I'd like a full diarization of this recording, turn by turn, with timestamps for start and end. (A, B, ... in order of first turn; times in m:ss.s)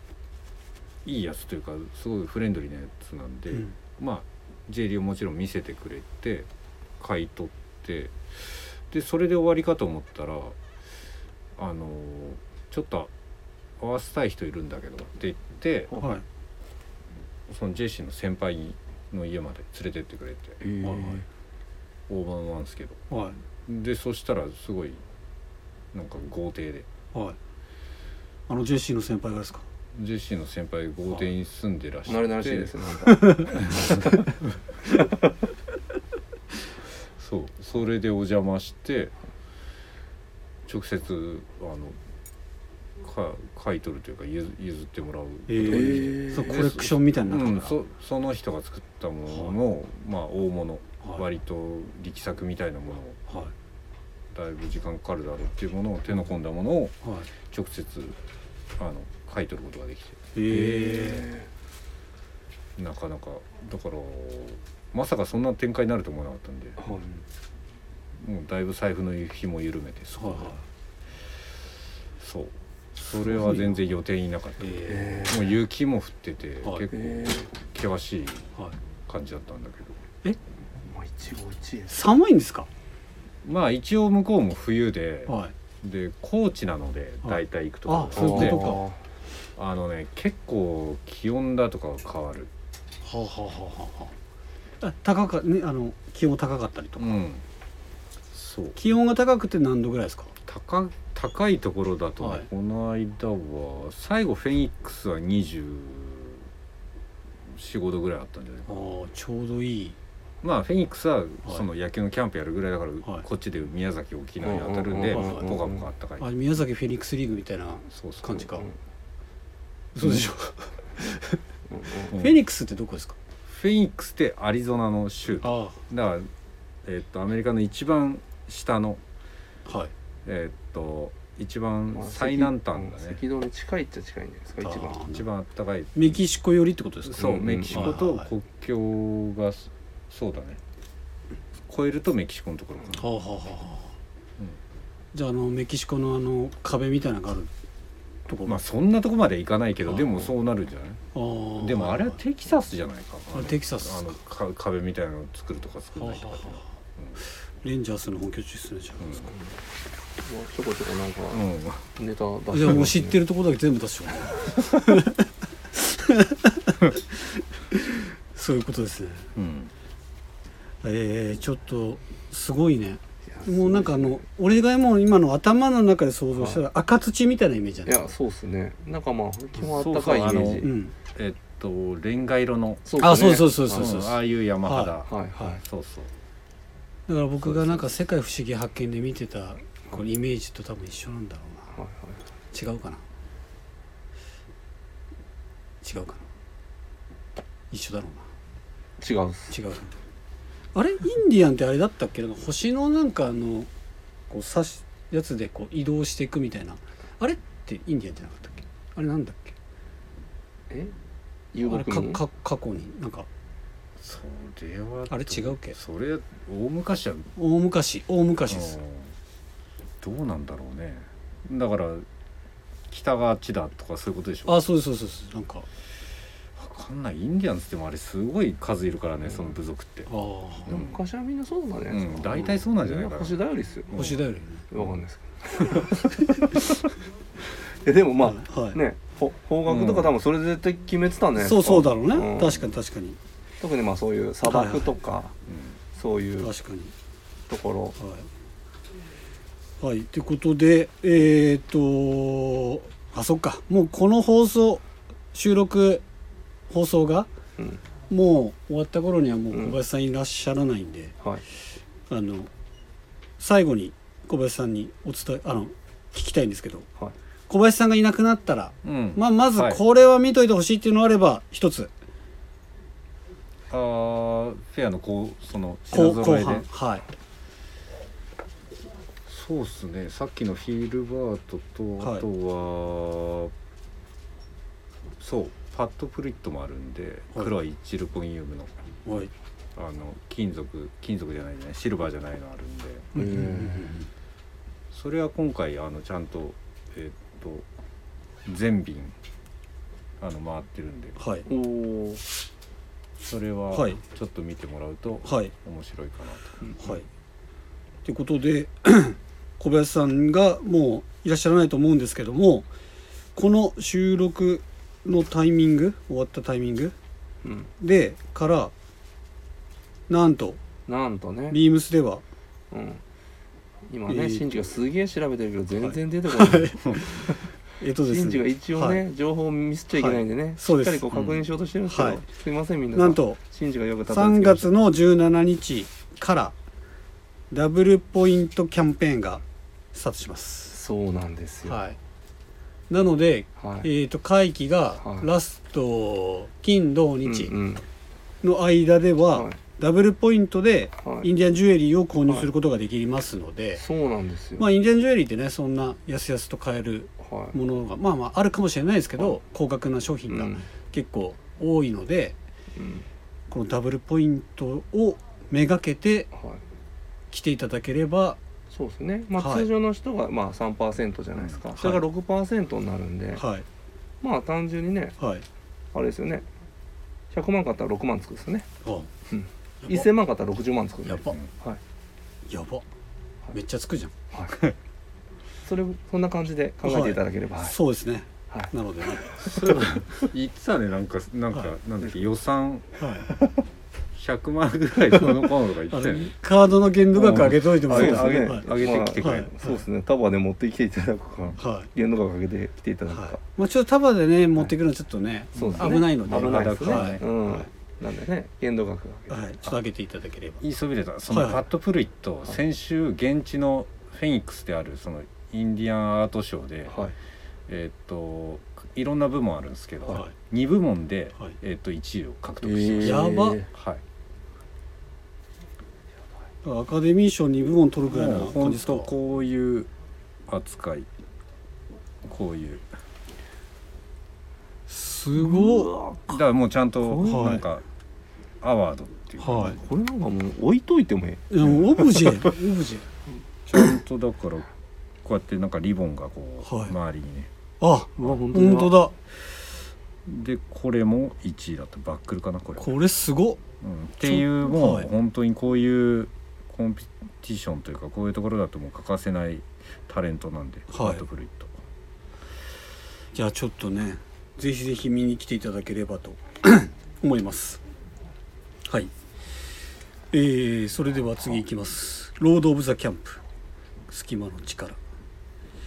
0:01.0-0:06.5 A
0:07.0-0:10.6 A
0:11.6-0:13.1 A
0:13.8-0:15.9 A
0:16.0-0:16.2 B
0:17.5-0:20.6 A
0:20.6-0:21.2 C
0:20.8-0:21.2 B
0:22.1-0:23.0 A
0:23.1-0:23.4 B
0:23.6-0:25.0 A
0:25.9-0:26.9 A
0:28.5-0:29.6 B
0:29.9-0:32.7 A
0:32.1-0:34.2 C
0:33.1-0:33.5 B
0:33.6-0:34.2 A
0:37.2-0:39.1 A
0:40.6-0:42.0 A
0:43.0-0:53.2 A
0:45.5-0:47.7 B
0:45.7-0:46.6 C
0:54.3-0:58.2 A
0:57.0-0:57.3 B
0:58.8-1:01.3 A
1:00.3-1:01.3 B
1:00.7-1:01.4 C
1:02.8-1:06.8 A
1:06.8-1:07.1 C
1:08.2-1:10.6 A
1:10.2-1:10.6 B
1:12.2-1:18.5 A
1:13.2-1:13.8 B
1:14.6-1:15.2 B
1:14.9-1:15.6 C
1:16.9-1:17.5 C
1:19.1-1:20.0 A
1:20.9-1:22.0 C
1:21.9-1:22.7 B
1:23.4-1:28.7 A
1:25.3-1:25.5 B
1:27.2-1:28.8 B
1:28.2-1:29.0 C
1:29.6-1:32.5 A
1:33.0-1:34.1 B
1:34.8-1:37.2 B
1:37.0-1:37.4 A
1:38.3-1:38.8 A
1:38.8-1:40.3 B
1:40.4-1:46.4 A
1:42.2-1:42.5 B
1:47.5-1:48.9 A
1:48.7-1:50.0 B
1:50.4-1:56.3 A
1:54.4-1:55.8 C
1:55.1-1:55.5 B
1:56.2-1:58.7 B
1:57.9-1:58.4 A
1:59.9-2:01.4 B
2:00.0-2:00.3 A
2:01.7-2:02.1 C
2:01.9-2:03.2 B
2:02.1-2:02.4 A
2:03.5-2:06.3 A
2:05.4-2:05.8 B
2:06.8-2:09.0 A
2:09.6-2:09.9 B
2:10.2-2:13.2 A
2:11.9-2:15.0 C
2:14.6-2:15.2 B
2:15.0-2:16.2 A
2:15.9-2:18.3 B
2:17.0-2:20.6 A
2:17.2-2:18.0 C
2:21.7-2:23.1 A
2:23.0-2:23.9 B
2:25.1-2:27.5 B
2:28.3-2:28.6 B
2:28.4-2:31.0 A
2:31.1-2:32.2 B
2:31.6-2:37.2 A
2:33.3-2:34.2 B
2:36.0-2:36.7 B
2:37.6-2:39.3 B
2:40.2-2:43.2 C
2:41.3-2:41.9 A
2:42.5-2:49.2 B
2:49.4-2:49.7 A
2:50.8-2:58.1 B
2:53.3-2:54.2 C
2:56.4-2:56.6 C
2:57.8-3:00.7 C
2:59.6-3:06.1 A
3:00.6-3:00.9 B
3:02.8-3:03.9 C
3:03.0-3:04.9 B
3:05.0-3:05.6 C
3:07.1-3:11.7 B
3:07.4-3:07.8 A
3:11.7-3:12.2 C
3:12.5-3:13.0 B
3:15.8-3:16.2 B
3:17.7-3:18.2 B
3:19.0-3:19.5 C
3:19.5-3:19.9 B
3:20.7-3:23.7 B
3:24.3-3:29.6 B
3:31.5-3:32.2 C
3:31.6-3:33.3 B
3:34.0-3:37.3 A
3:35.1-3:35.8 B
3:37.4-3:38.8 B
3:38.5-3:39.1 A
3:40.0-3:42.0 A
3:42.9-3:44.6 A
3:44.5-3:45.6 B
3:46.6-3:50.1 A
3:50.1-3:50.8 B
3:50.7-3:51.0 A
3:50.7-3:54.1 C
3:51.9-3:54.2 A
3:53.9-3:54.6 B
3:54.7-3:56.9 C
3:57.8-4:02.7 C
3:58.2-3:58.8 B
3:59.6-4:00.1 A
4:01.4-4:03.2 B
4:03.6-4:05.3 C
4:04.4-4:05.0 B
4:05.5-4:05.7 A
4:05.9-4:06.5 C
4:06.4-4:06.9 B
4:07.5-4:08.0 C
4:08.0-4:08.3 B
4:09.8-4:16.0 B
4:16.7-4:17.3 B
4:18.1-4:21.1 B
4:19.5-4:19.8 C
4:22.1-4:22.5 B
4:23.4-4:26.9 B
4:27.5-4:31.9 B
4:28.8-4:29.8 A
4:33.7-4:36.7 A
4:35.9-4:37.0 B
4:39.2-4:43.5 A
4:42.0-4:42.2 B
4:45.2-4:48.7 A
4:49.0-4:49.3 B
4:49.8-4:53.1 A
4:53.1-4:53.9 C
4:53.1-4:54.0 B
4:54.9-4:57.7 A
4:58.4-4:59.1 A
5:00.2-5:01.2 A
5:01.2-5:01.5 B
5:01.5-5:02.2 C
5:03.2-5:06.6 A
5:03.7-5:04.0 B
5:05.2-5:05.5 B
5:06.8-5:07.0 B
5:08.0-5:12.7 B
5:13.4-5:16.9 B
5:17.4-5:17.7 C
5:17.8-5:18.7 B
5:20.1-5:20.6 B
5:20.9-5:21.6 C
5:21.5-5:22.2 B
5:22.7-5:23.0 C
5:23.9-5:27.3 C
5:24.1-5:24.5 B
5:25.8-5:29.0 B
5:28.0-5:34.7 C
5:29.9-5:31.3 B
5:31.9-5:32.2 B
5:32.9-5:33.4 B
5:34.1-5:36.5 B
5:37.5-5:39.4 B
5:39.9-5:40.7 B
5:40.7-5:41.8 C
5:41.6-5:42.0 B
5:42.9-5:47.5 B
5:43.6-5:43.9 C
5:45.0-5:45.3 C
5:47.2-5:47.8 C
5:48.4-5:53.8 B
5:51.0-5:51.3 C
5:53.8-5:54.6 C
5:54.6-6:02.4 B
5:57.2-5:57.5 C
6:00.3-6:00.6 C
6:02.8-6:03.0 C
6:03.5-6:06.3 B
6:06.3-6:06.6 C
6:07.3-6:08.4 B
6:08.7-6:13.4 C
6:09.4-6:09.7 B
6:11.8-6:12.0 B
6:13.4-6:13.6 B
6:14.2-6:15.2 C
6:15.2-6:15.4 B
6:15.9-6:16.4 C
6:17.3-6:18.7 C
6:18.8-6:19.1 B
6:19.3-6:21.8 C
6:21.0-6:21.4 B
6:22.5-6:22.8 B
6:23.5-6:24.1 B
6:24.3-6:24.6 C
6:25.6-6:27.8 C
6:26.8-6:29.9 B
6:28.5-6:29.9 C
6:29.4-6:32.9 A
6:33.0-6:33.2 B
6:34.1-6:36.3 A
6:35.9-6:39.7 B
6:37.2-6:39.5 A
6:37.2-6:43.4 C
6:41.6-6:41.9 B
6:43.1-6:47.7 B
6:45.5-6:49.7 C
6:45.6-6:47.2 A
6:49.3-6:50.6 B
6:50.6-6:57.1 A
6:51.3-6:51.6 B
6:56.9-6:57.1 C
6:57.7-7:04.0 A
7:02.6-7:03.7 C
7:03.0-7:03.6 B
7:06.6-7:09.1 B
7:08.1-7:09.9 A
7:10.5-7:11.1 A
7:12.2-7:12.8 A
7:14.9-7:15.9 B
7:15.4-7:16.4 C
7:16.3-7:17.8 A
7:17.0-7:17.6 C
7:17.3-7:17.6 B
7:18.6-7:19.8 A
7:19.4-7:19.8 B
7:19.5-7:21.5 C
7:21.5-7:23.1 B
7:23.7-7:24.7 A
7:25.2-7:27.5 A
7:26.6-7:26.9 B
7:27.8-7:29.1 B
7:28.2-7:29.0 C
7:30.2-7:33.0 A
7:32.8-7:33.6 B
7:33.8-7:41.8 A
7:34.2-7:35.1 B
7:40.9-7:41.2 B
7:43.3-7:47.8 B
7:50.3-7:53.4 B
7:54.1-7:55.0 B